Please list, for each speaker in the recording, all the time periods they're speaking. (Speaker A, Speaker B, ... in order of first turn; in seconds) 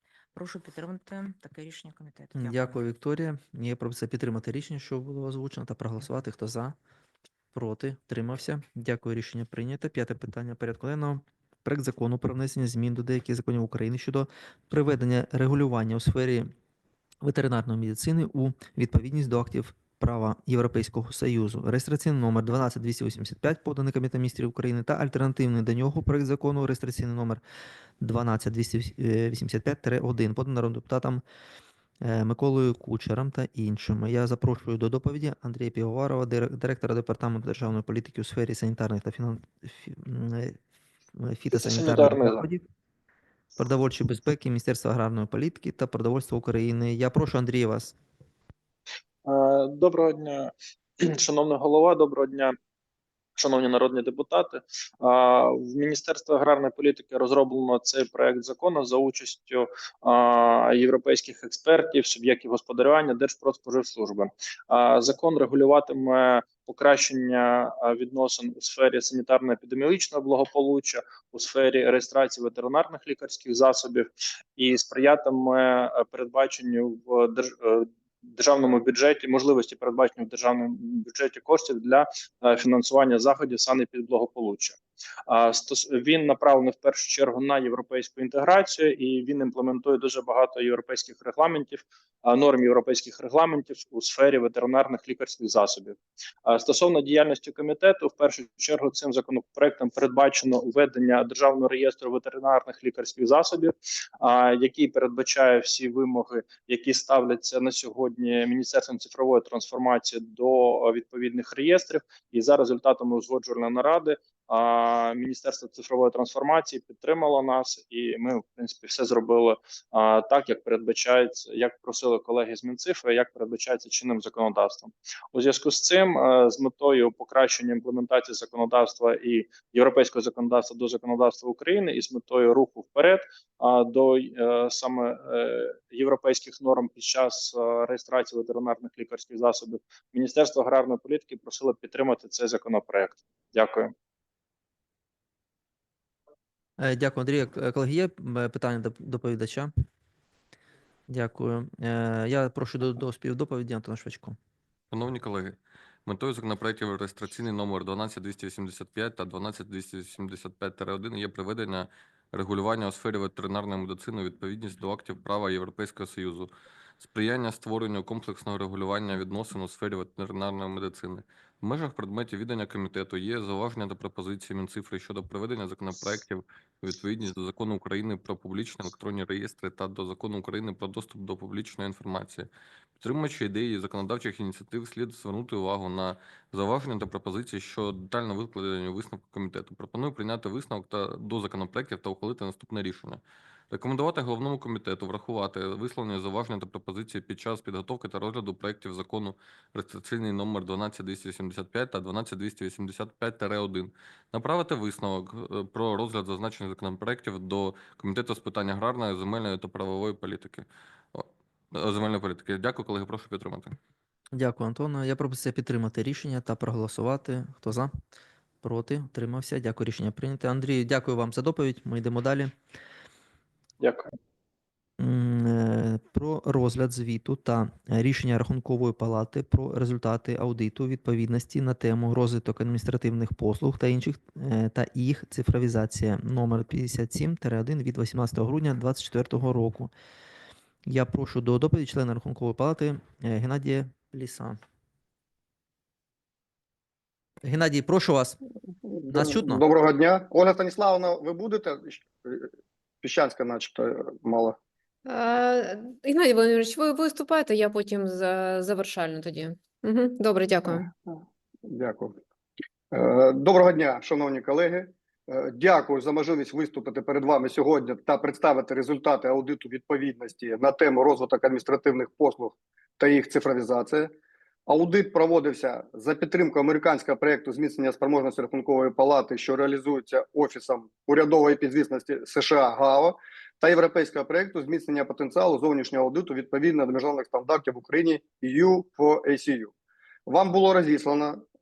Speaker A: 0.3-2.8
Speaker B: 2.4-6.8, 7.5-16.5, 17.2-27.4, 28.0-31.2, 32.0-40.6, 41.1-42.6, 43.6-48.0, 146.8-149.7, 151.1-154.4, 214.3-217.9, 218.6-222.5, 225.0-239.9, 240.9-244.6, 247.4-248.4, 249.1-249.6
Speaker C: 41.5-42.5, 49.2-52.6, 53.4-143.9, 223.8-224.1
Speaker D: 154.9-182.5, 183.0-213.8
Speaker E: 248.9-252.5, 253.0-254.6, 261.1-262.2, 262.9-274.1, 274.7-289.7, 290.3-291.4
Speaker F: 255.1-260.9